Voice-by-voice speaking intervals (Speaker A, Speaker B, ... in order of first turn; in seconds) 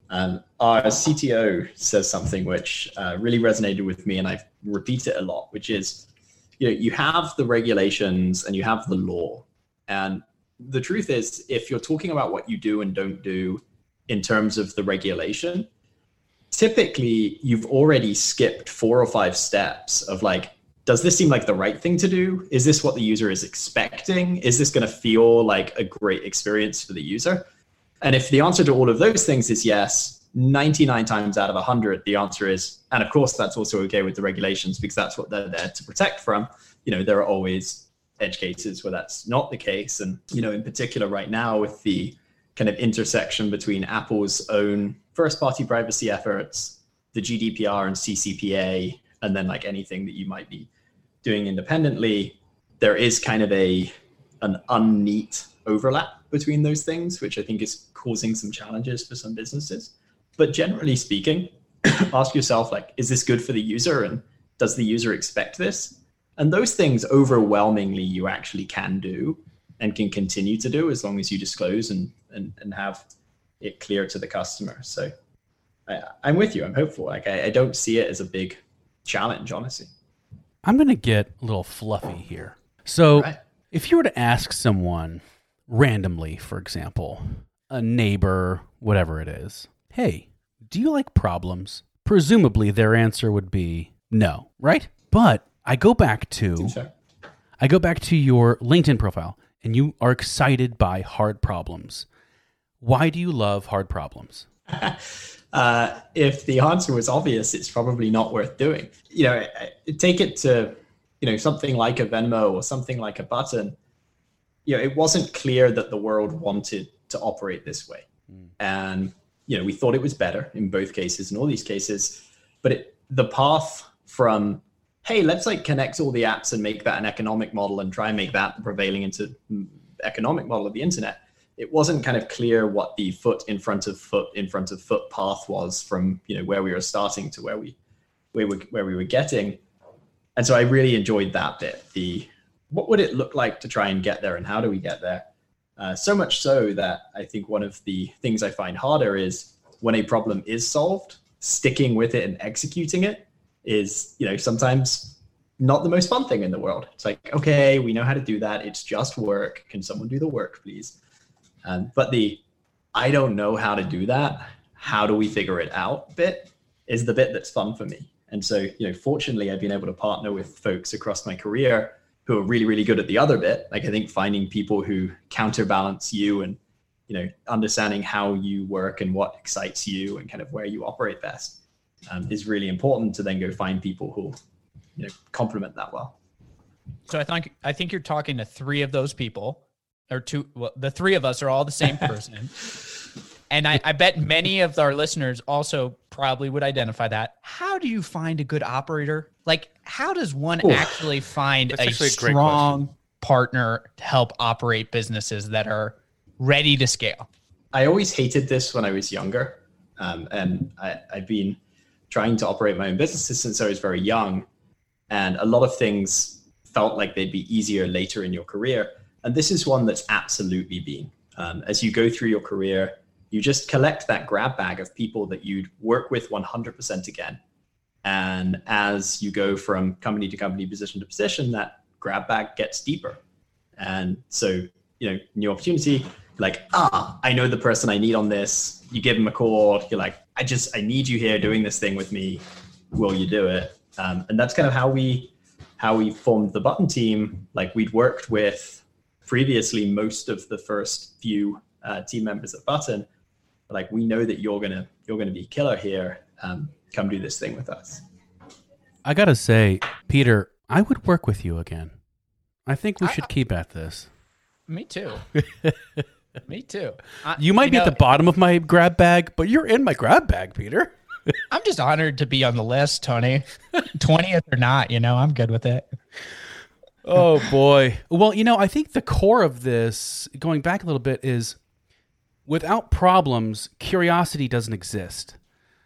Speaker A: 0.1-6.1, 6.6-15.7, 16.5-27.4, 28.0-50.7, 51.2-73.0, 73.6-75.1, 75.9-79.9, 83.1-83.4, 96.6-96.9, 104.7-105.0, 105.5-113.8, 114.7-118.0, 118.6-137.8, 138.3-139.6, 140.3-160.9, 161.6-162.4, 162.9-176.6, 177.1-184.4, 185.0-186.1, 200.6-201.0, 207.7-211.6, 212.1-214.4, 215.1-227.4, 228.0-233.2, 233.8-253.1, 253.7-258.0
Speaker B: 80.6-96.8, 97.6-102.1, 102.8-104.5, 201.7-202.8, 259.0-261.9, 262.6-264.1, 265.3-266.0, 267.4-271.3, 277.0-281.6, 282.5-285.4
Speaker C: 187.1-192.6, 193.5-207.3, 263.0-263.3, 264.7-265.2, 266.4-267.9, 271.5-275.9